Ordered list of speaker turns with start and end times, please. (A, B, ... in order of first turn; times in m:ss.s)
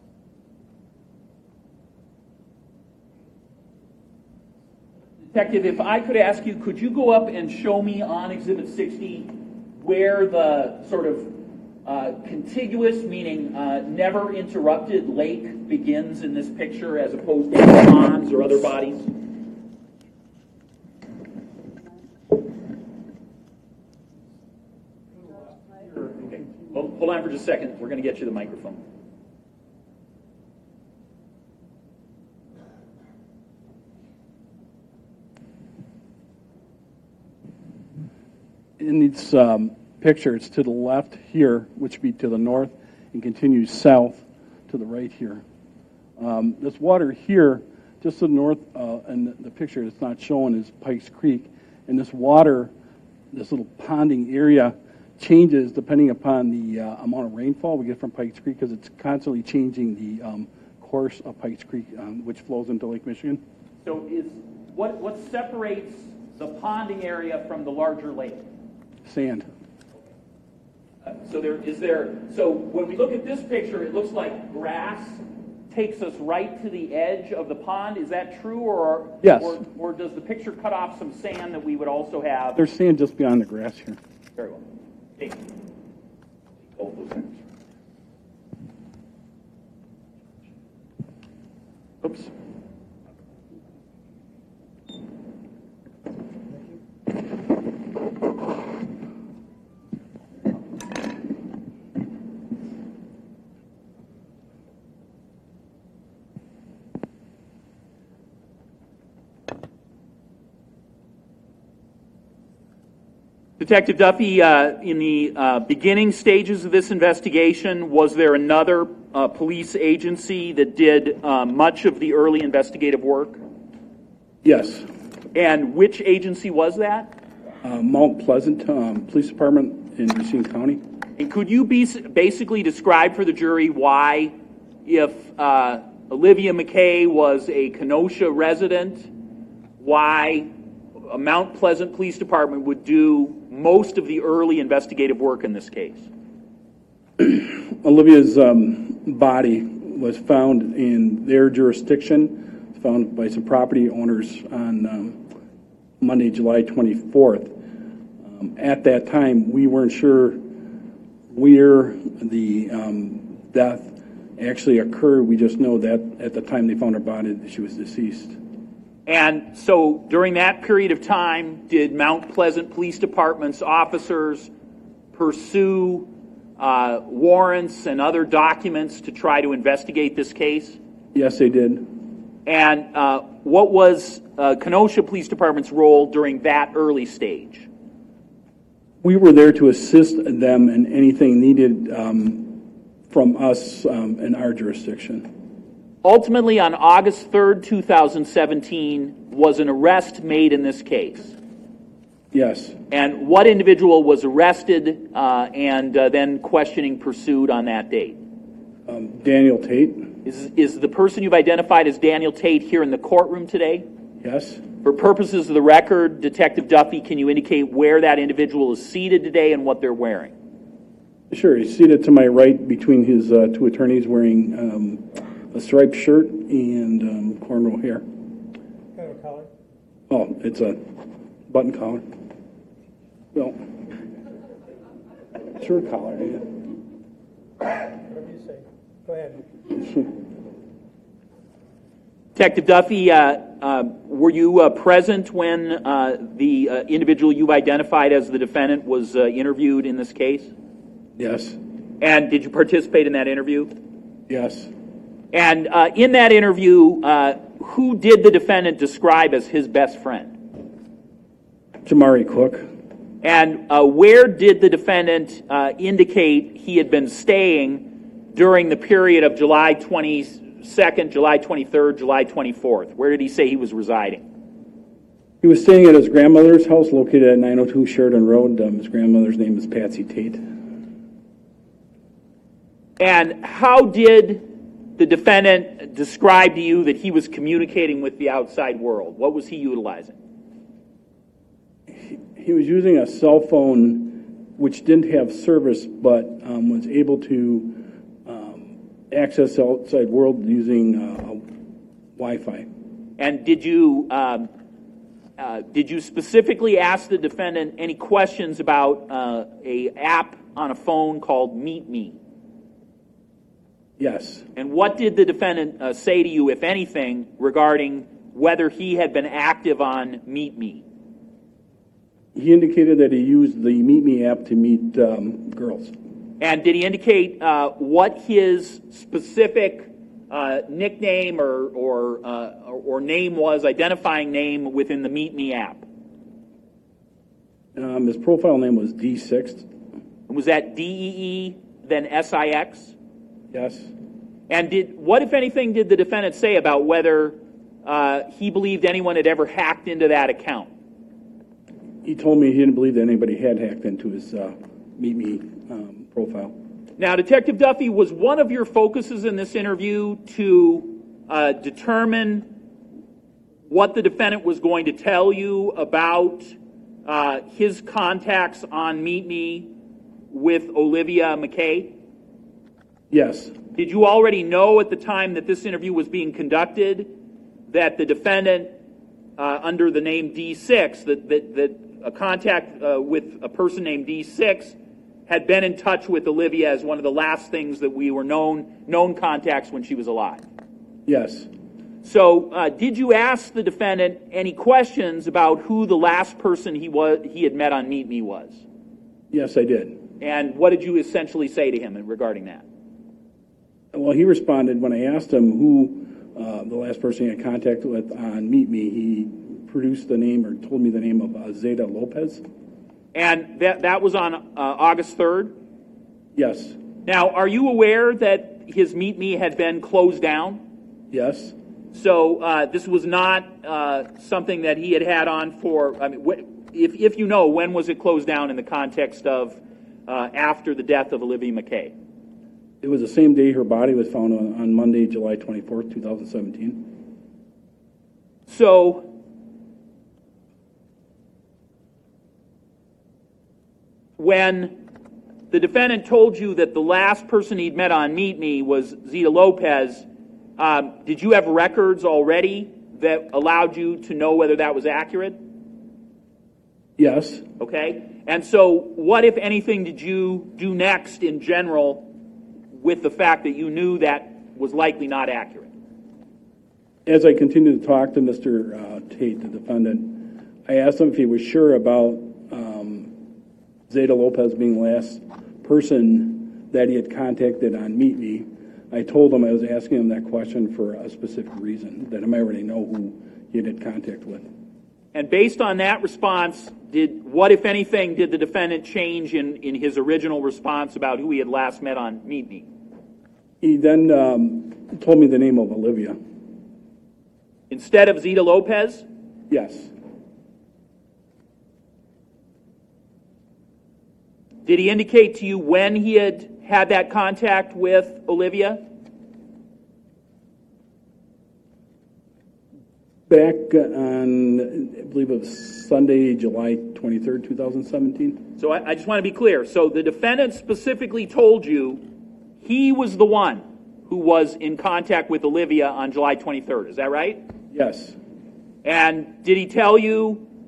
0:05.3-0:19.1 A
0:25.8-0:28.8 A
0:38.8-0:45.4 B
0:46.2-0:52.7 B
0:53.3-1:03.4 B
1:03.8-1:08.5 A
1:09.0-1:09.5 B
1:11.1-1:22.6 A
1:19.2-1:19.6 B
1:22.6-1:24.0 B
1:24.4-1:24.6 A
1:25.2-1:25.4 A
1:26.7-1:27.3 A
1:53.6-2:03.4 A
2:04.4-2:04.9 B
2:05.3-2:07.2 A
2:07.6-2:10.8 B
2:11.2-2:14.3 A
2:14.8-2:19.1 A
2:19.8-2:20.5 A
2:21.1-2:26.1 A
2:27.2-2:35.2 B
2:36.0-2:37.6 B
2:38.2-2:40.5 B
2:41.3-2:48.4 B
2:49.1-2:54.5 A
2:55.1-3:00.8 A
3:01.1-3:02.0 B
3:02.5-3:07.7 A
3:09.0-3:15.3 B
3:16.0-3:21.4 A
3:22.3-3:22.8 B
3:22.9-3:28.2 A
3:28.9-3:30.2 B
3:30.2-3:33.9 A
3:34.2-3:34.6 B
3:34.8-3:40.3 A
3:41.3-3:48.1 B
3:48.9-3:49.5 C
3:50.1-3:52.1 B
3:53.3-3:53.7 B
3:55.4-3:56.5 B
3:58.0-3:59.7 C
4:02.4-4:10.5 A
4:11.2-4:11.6 B
4:12.0-4:13.7 A
4:14.3-4:14.7 B
4:15.3-4:20.4 A
4:21.8-4:22.7 B
4:23.2-4:34.2 A
4:35.4-4:40.5 B
4:43.0-4:50.2 A
4:51.9-5:01.4 B
5:02.2-5:02.7 B
5:03.2-5:04.5 A
5:05.4-5:12.2 A
5:14.0-5:14.4 B
5:14.6-5:20.8 A
5:22.3-5:25.9 B
5:26.4-5:35.8 A
5:37.8-5:39.7 B
5:40.3-5:43.0 A
5:43.5-5:43.9 B
5:44.5-5:50.7 A
5:52.0-5:56.6 B
5:57.0-6:02.5 A
6:03.7-6:09.7 A
6:10.3-6:11.9 A
6:13.1-6:13.6 B
6:13.7-6:17.1 A
6:17.7-6:18.7 A
6:19.4-6:30.4 A
6:31.1-6:31.5 B
6:32.0-6:38.6 A
6:39.3-6:40.0 B
6:40.2-6:42.6 A
6:43.9-6:52.4 B
6:53.1-6:55.6 A
6:56.4-6:56.8 B
6:57.0-7:00.6 A
7:01.1-7:01.6 B
7:01.9-7:11.9 A
7:12.8-7:17.0 B
7:18.5-7:19.1 A
7:24.2-7:24.8 A
7:25.5-7:35.4 A
7:37.0-7:37.5 B
7:37.6-7:42.1 A
7:42.7-7:45.7 A
7:47.1-7:53.1 B
7:53.9-8:04.5 B
8:05.1-8:12.7 A
8:13.6-8:16.2 B
8:17.7-8:19.0 A
8:19.5-8:19.9 B
8:24.6-8:28.8 A
8:33.3-8:38.5 B
8:38.6-8:42.0 A
8:42.6-8:47.4 A
8:47.7-8:48.2 B
8:48.8-8:50.4 A